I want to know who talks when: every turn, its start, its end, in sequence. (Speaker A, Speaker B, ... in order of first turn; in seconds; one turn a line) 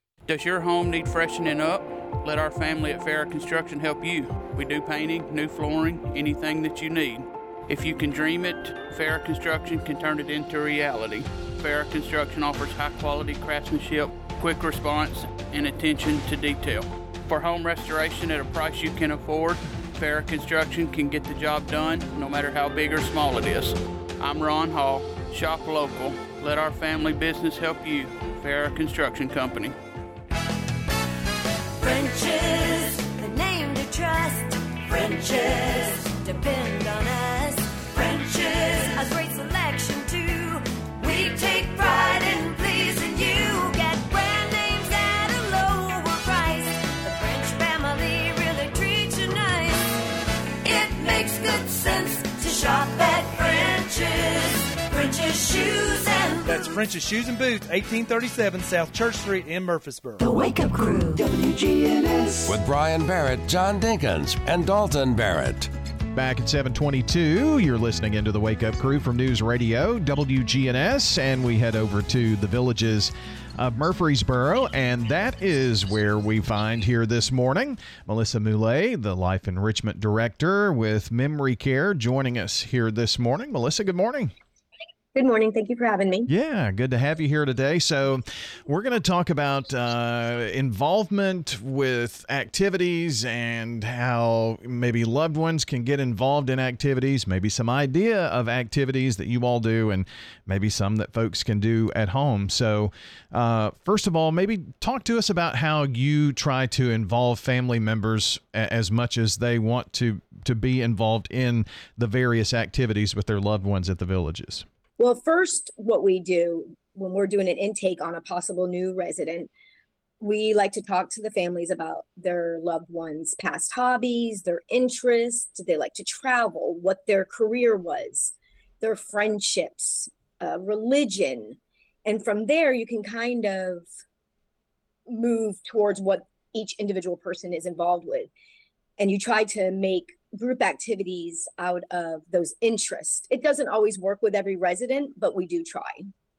Speaker A: 0.3-29.8
Speaker B: 31.8-50.0
Speaker B: 50.6-56.8
Speaker C: 56.5-60.2
Speaker D: 60.2-62.6
Speaker E: 62.5-65.7
Speaker F: 66.1-84.3
Speaker G: 85.1-86.3
Speaker F: 86.3-114.7
Speaker G: 115.0-119.5
Speaker G: 120.2-133.9
Speaker G: 135.1-138.3
Speaker G: 139.0-146.1